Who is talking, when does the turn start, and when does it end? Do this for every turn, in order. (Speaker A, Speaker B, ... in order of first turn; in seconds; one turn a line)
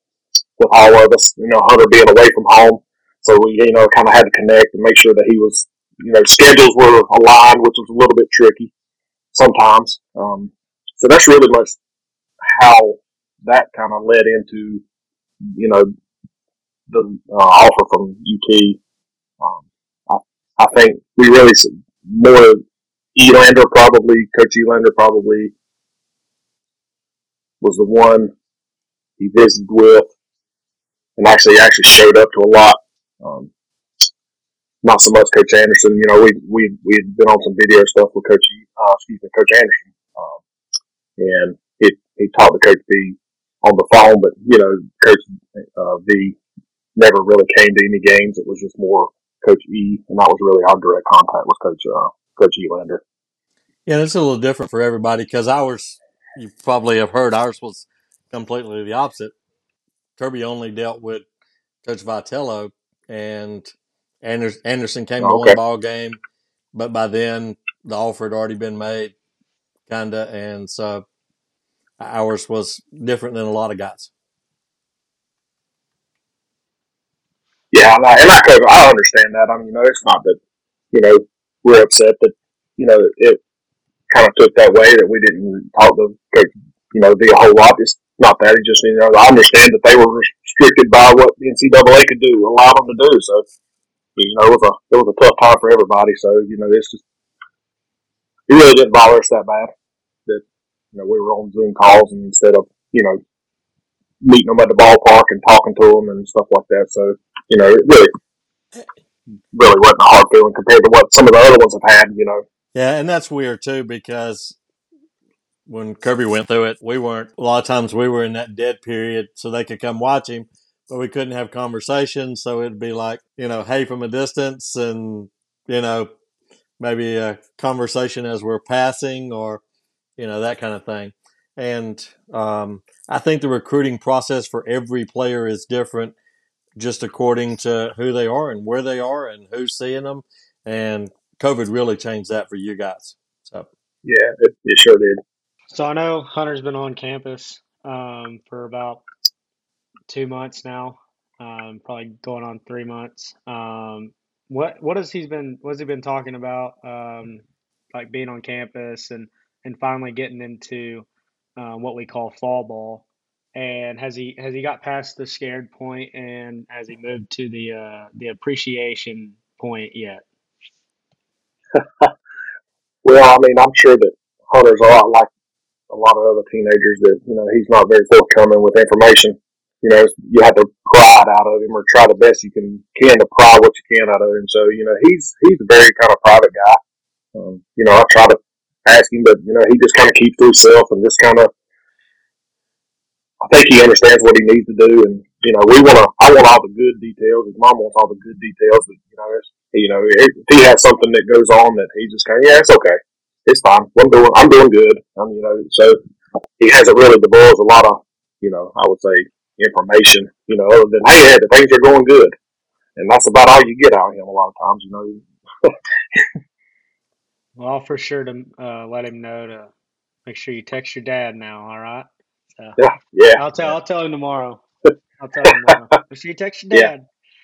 Speaker A: 0.6-8.7
Speaker A: 9.3-11.8
Speaker A: 12.5-14.8
Speaker A: 15.5-15.9
Speaker A: 16.9-18.8
Speaker A: 19.4-22.6
Speaker A: 23.1-25.5
Speaker A: 27.6-28.3
Speaker A: 29.2-30.1
Speaker A: 31.2-33.5
Speaker A: 34.8-40.4
Speaker A: 41.2-46.4
Speaker A: 47.0-53.0
Speaker B: 53.9-59.3
Speaker B: 60.2-61.2
Speaker B: 61.8-66.2
Speaker A: 65.2-65.6
Speaker B: 66.7-69.1
Speaker B: 69.9-71.0
Speaker B: 72.0-74.1
Speaker A: 77.7-80.4
Speaker A: 80.9-83.4
Speaker A: 84.1-93.4
Speaker A: 94.2-97.0
Speaker A: 98.5-99.7
Speaker A: 100.3-103.2
Speaker A: 104.2-108.1
Speaker A: 109.5-112.4
Speaker B: 112.7-114.6
Speaker B: 115.7-126.1
Speaker B: 126.8-129.6
Speaker B: 130.2-136.1
Speaker B: 136.8-143.7
Speaker A: 144.0-145.2
Speaker C: 145.7-149.0
Speaker C: 150.1-161.1
Speaker C: 161.6-170.2
Speaker A: 171.7-172.1
Speaker A: 173.0-175.3
Speaker A: 175.9-186.8
Speaker A: 187.3-191.5
Speaker A: 193.4-206.0
Speaker A: 206.6-212.3
Speaker A: 212.9-216.2
Speaker C: 217.6-219.7
Speaker C: 220.2-222.1
Speaker A: 222.8-223.7
Speaker C: 223.4-224.6
Speaker C: 225.2-227.1